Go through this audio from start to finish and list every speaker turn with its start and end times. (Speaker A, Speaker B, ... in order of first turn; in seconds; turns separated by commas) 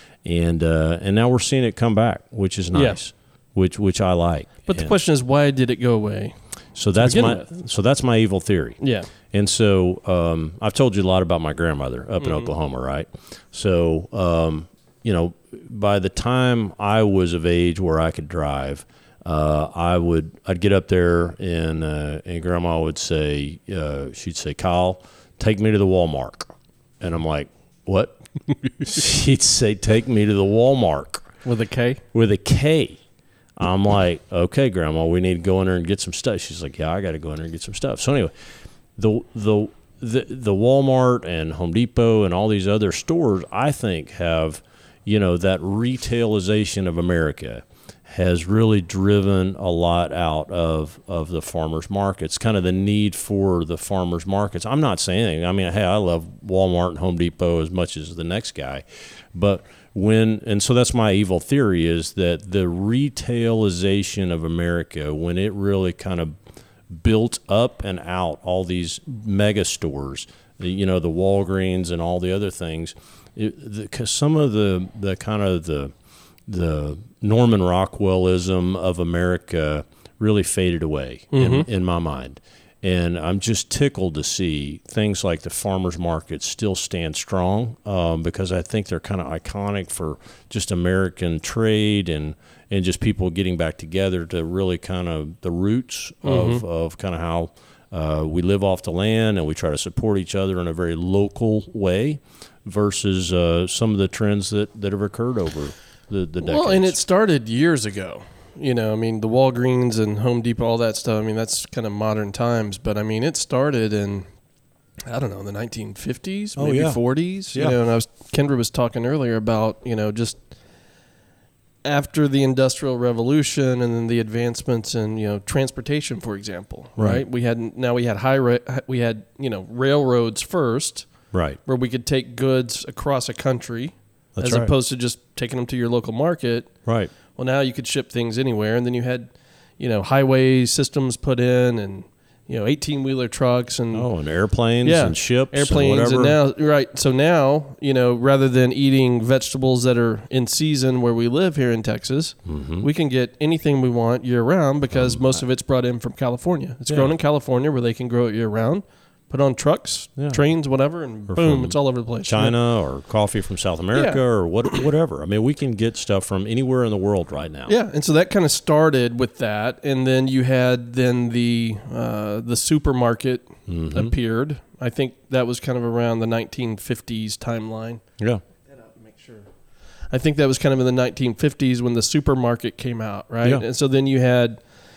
Speaker A: 0.2-4.9, Speaker B: 2.7-3.0, Speaker B: 4.7-6.3, Speaker A: 6.7-8.8, Speaker B: 7.0-7.5, Speaker B: 8.8-9.1, Speaker A: 9.3-28.2, Speaker B: 12.2-12.5, Speaker A: 28.8-31.3, Speaker B: 31.4-32.0, Speaker A: 32.1-33.0, Speaker A: 33.5-38.3, Speaker A: 39.0-66.3, Speaker A: 66.9-75.9, Speaker A: 76.5-107.0, Speaker B: 81.3-81.7, Speaker B: 96.2-96.6, Speaker B: 106.4-114.3, Speaker B: 115.0-120.4, Speaker A: 116.5-117.0, Speaker B: 121.8-131.1, Speaker A: 127.0-127.2, Speaker A: 131.3-131.6, Speaker B: 131.6-136.7, Speaker A: 134.3-134.7, Speaker A: 136.8-137.1, Speaker B: 137.3-144.1, Speaker A: 143.9-146.3, Speaker B: 144.8-162.6, Speaker A: 152.4-152.9, Speaker A: 154.9-155.4, Speaker A: 156.9-157.1, Speaker A: 161.3-167.7, Speaker B: 163.9-164.2, Speaker B: 167.7-178.0, Speaker A: 173.7-174.1, Speaker B: 178.7-179.5, Speaker B: 180.1-184.7